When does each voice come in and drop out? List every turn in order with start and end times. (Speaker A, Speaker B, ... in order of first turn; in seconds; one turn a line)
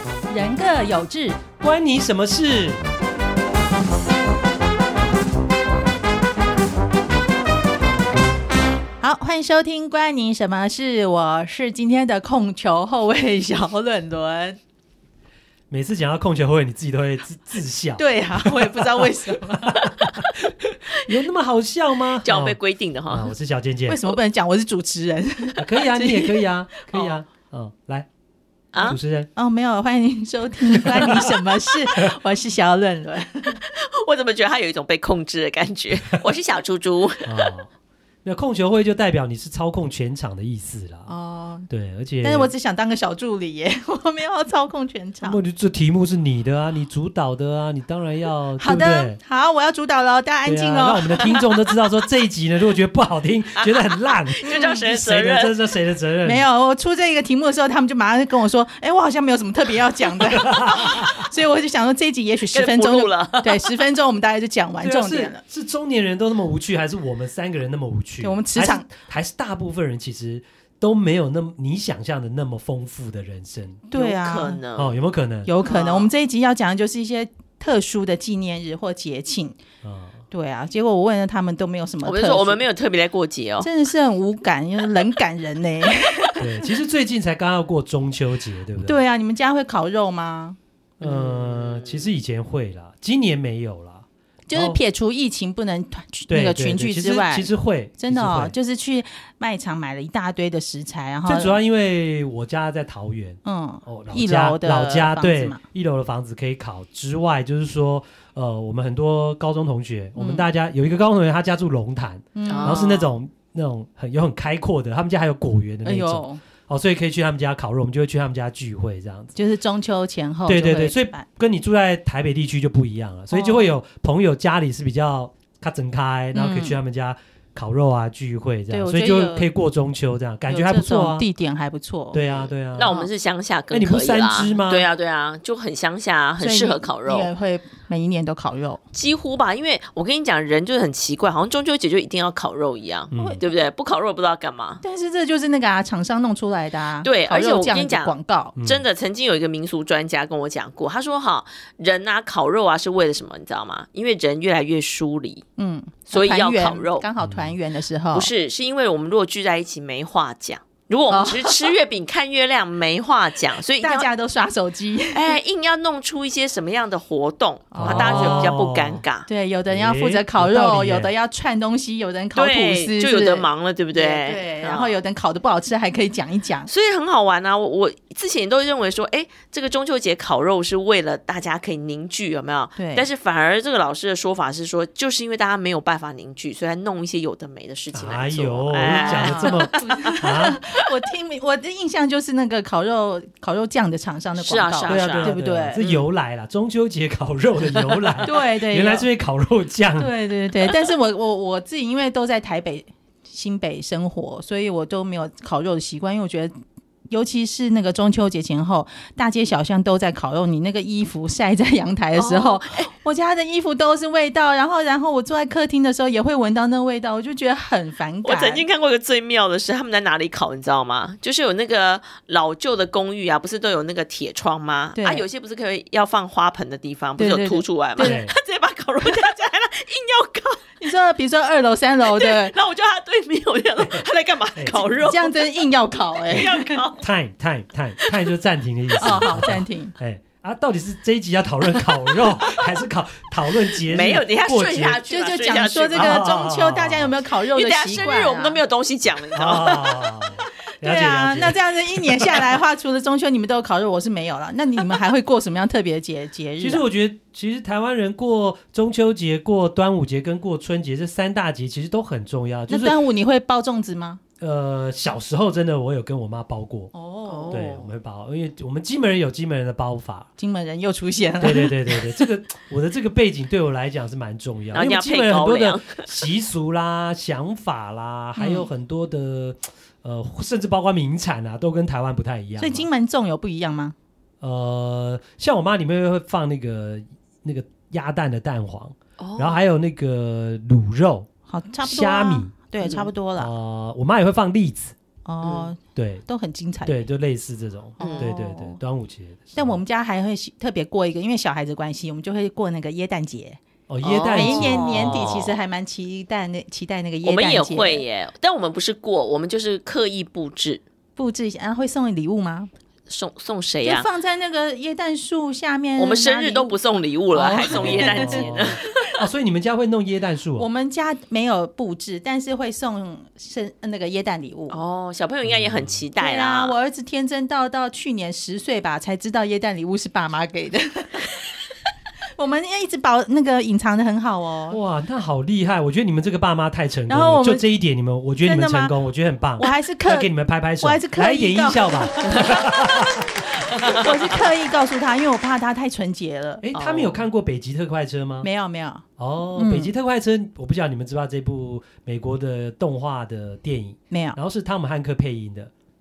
Speaker A: 0.3-1.4
Speaker B: 1.6-2.8
Speaker A: 9.0-14.6
Speaker B: 15.7-22.6
Speaker A: 18.0-20.1
Speaker C: 22.2-23.3
Speaker B: 23.1-24.1
Speaker A: 23.9-27.0
Speaker B: 25.6-28.1
Speaker B: 28.8-29.3
Speaker A: 29.4-33.6
Speaker B: 30.8-31.3
Speaker C: 33.5-37.5
Speaker B: 37.2-37.7
Speaker B: 38.2-41.1
Speaker A: 41.1-41.7
Speaker B: 41.7-42.5
Speaker A: 42.2-45.4
Speaker B: 45.2-49.2
Speaker A: 48.6-51.5
Speaker B: 50.4-56.5
Speaker C: 54.3-55.5
Speaker A: 54.5-54.8
Speaker A: 56.2-65.4
Speaker B: 60.3-61.3
Speaker C: 62.5-63.7
Speaker B: 64.8-73.8
Speaker A: 68.2-68.9
Speaker A: 73.9-74.6
Speaker C: 73.9-74.9
Speaker B: 74.8-75.5
Speaker A: 75.5-79.6
Speaker C: 75.6-76.1
Speaker B: 79.8-80.2
Speaker A: 80.3-82.6
Speaker C: 82.0-83.7
Speaker A: 83.6-86.7
Speaker B: 86.4-89.0
Speaker A: 88.8-90.6
Speaker C: 91.0-92.1
Speaker B: 91.0-94.8
Speaker A: 94.5-101.5
Speaker B: 96.3-98.5
Speaker B: 101.2-119.3
Speaker A: 103.4-105.6
Speaker A: 110.2-110.4
Speaker A: 112.3-113.0
Speaker C: 112.5-113.1
Speaker A: 115.8-116.4
Speaker A: 119.3-121.3
Speaker B: 120.5-131.2
Speaker A: 123.3-123.7
Speaker A: 126.3-126.8
Speaker A: 128.7-129.5
Speaker A: 130.5-132.2
Speaker B: 132.1-132.9
Speaker C: 132.7-137.3
Speaker B: 133.7-134.8
Speaker A: 136.4-138.8
Speaker C: 138.9-144.8
Speaker B: 143.1-143.4
Speaker A: 143.2-143.4
Speaker A: 144.8-148.6
Speaker C: 147.0-155.4
Speaker B: 148.5-148.8
Speaker A: 155.6-158.3
Speaker C: 156.1-157.1
Speaker B: 157.2-157.5
Speaker C: 158.1-164.1
Speaker A: 161.1-161.7
Speaker A: 163.7-165.4
Speaker C: 165.1-169.3
Speaker A: 167.7-168.6
Speaker B: 167.8-169.0
Speaker A: 169.3-176.7
Speaker B: 169.7-171.1
Speaker C: 172.3-174.9
Speaker C: 176.7-190.9
Speaker A: 182.8-183.1
Speaker B: 187.9-190.6
Speaker A: 188.9-195.9
Speaker C: 194.4-196.0
Speaker B: 194.9-200.1
Speaker C: 197.8-198.2
Speaker A: 198.2-199.1
Speaker A: 200.0-206.5
Speaker A: 207.1-218.6
Speaker C: 212.1-212.9
Speaker C: 218.2-230.6
Speaker A: 224.9-225.2
Speaker A: 227.2-228.2
Speaker B: 228.0-228.3
Speaker A: 230.8-232.5
Speaker C: 232.1-235.4
Speaker B: 233.8-234.8
Speaker A: 235.0-236.9
Speaker C: 236.1-237.0
Speaker B: 237.0-245.0
Speaker A: 239.0-239.9
Speaker C: 241.8-242.6
Speaker C: 243.8-246.3
Speaker A: 245.1-248.6
Speaker B: 245.9-247.1
Speaker C: 247.5-250.0
Speaker B: 249.3-252.6
Speaker A: 250.8-256.8
Speaker B: 256.6-263.0
Speaker A: 262.7-264.2
Speaker B: 264.4-266.9
Speaker A: 266.9-267.6
Speaker C: 267.2-267.9
Speaker B: 267.5-270.3
Speaker A: 270.4-272.3
Speaker B: 271.4-282.9
Speaker C: 274.7-276.1
Speaker A: 278.4-278.7
Speaker A: 282.6-283.9
Speaker B: 284.4-291.3
Speaker C: 289.2-289.6
Speaker A: 291.5-293.5
Speaker B: 291.8-292.5
Speaker C: 292.8-293.1
Speaker B: 293.4-294.9
Speaker A: 295.2-297.0
Speaker C: 295.4-295.7
Speaker B: 295.9-296.2
Speaker B: 296.9-299.8
Speaker C: 298.0-298.3
Speaker A: 298.0-298.8
Speaker A: 299.6-303.6
Speaker B: 303.9-305.5
Speaker C: 304.0-305.6
Speaker A: 304.3-308.0
Speaker C: 307.2-310.8
Speaker A: 311.2-312.7
Speaker C: 313.1-314.1
Speaker A: 313.8-316.7
Speaker C: 316.0-318.8
Speaker A: 317.3-319.1
Speaker B: 317.7-320.7
Speaker A: 320.6-324.8
Speaker C: 324.7-326.8
Speaker B: 325.4-326.0
Speaker A: 326.2-331.6
Speaker A: 332.4-334.8
Speaker B: 334.7-343.9
Speaker A: 337.1-337.6
Speaker A: 338.4-338.9
Speaker A: 339.6-340.3
Speaker A: 340.8-346.6
Speaker C: 343.7-344.1
Speaker B: 346.6-348.5
Speaker C: 346.7-347.2
Speaker A: 348.4-349.9
Speaker B: 349.2-355.7
Speaker A: 354.1-354.4